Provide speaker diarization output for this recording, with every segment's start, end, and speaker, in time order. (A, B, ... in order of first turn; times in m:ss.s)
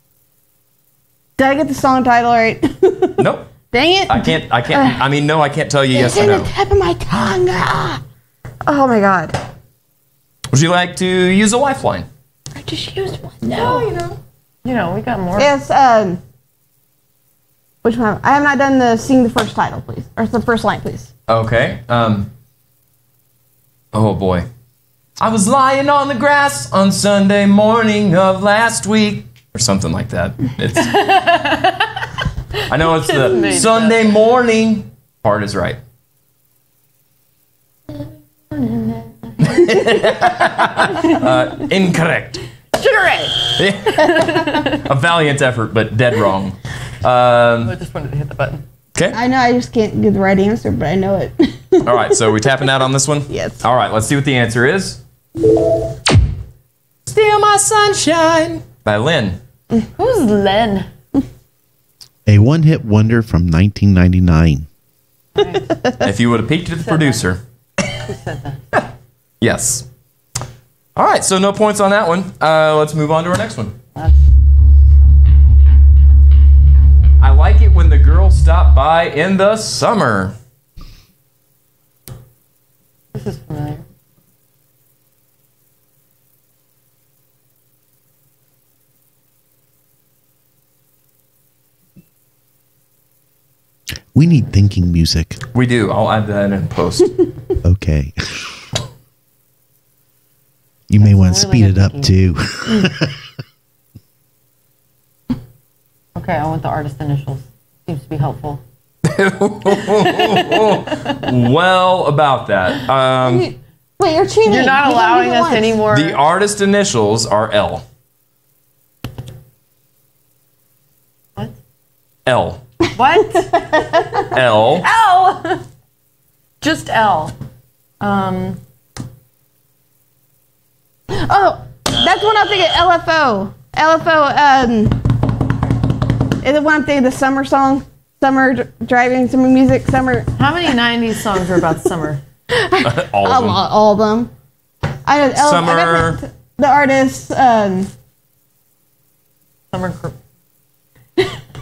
0:01.4-0:05.0 A
0:03.2-0:03.5 B
0:04.1-0:06.5 B
0:05.9-0:08.0 A
0:08.6-0:09.4 A
0:10.5-0:12.1 B
0:12.5-0:14.0 A
0:13.5-0:15.5 C
0:15.4-0:16.2 A
0:17.8-0:21.1 A
0:21.3-0:22.3 B
0:23.9-0:24.5 B
0:25.2-0:31.0 B
0:30.8-0:31.8 C
0:32.7-0:35.8 B
0:32.7-0:34.2 C
0:38.5-0:41.7 C
0:39.4-0:42.4 B
0:42.7-0:44.8 C
0:43.5-0:47.7 B
0:47.6-0:48.6 C
0:49.1-0:52.3 A
0:51.8-0:55.0 B
0:53.3-0:53.6 A
0:57.0-0:59.4 B
1:00.0-1:00.9 C
1:02.2-1:04.7 D
1:05.3-1:06.0 C
1:06.0-1:07.4 B
1:06.8-1:07.2 C
1:07.9-1:08.6 C
1:09.4-1:09.8 B
1:11.0-1:13.8 B
1:13.9-1:14.2 C
1:17.2-1:20.3 B
1:23.1-1:23.8 C
1:34.1-1:35.4 D
1:35.5-1:37.2 B
1:37.6-1:38.5 D
1:40.9-1:43.2 D
1:41.0-1:42.9 C
1:46.1-1:48.6 C
1:49.0-1:53.5 B
1:49.7-1:51.3 C
1:53.2-1:55.8 A
1:54.4-1:56.2 C
1:55.9-1:57.8 B
2:02.2-2:02.6 B
2:02.9-2:04.2 C
2:03.2-2:04.3 A
2:04.3-2:04.9 B
2:04.7-2:05.6 C
2:06.6-2:07.3 C
2:08.0-2:08.6 C
2:11.1-2:15.0 A
2:16.4-2:20.3 A
2:20.4-2:22.2 C
2:22.5-2:24.3 A
2:22.8-2:23.6 B
2:25.0-2:27.9 A
2:25.4-2:26.2 B
2:29.7-2:30.1 C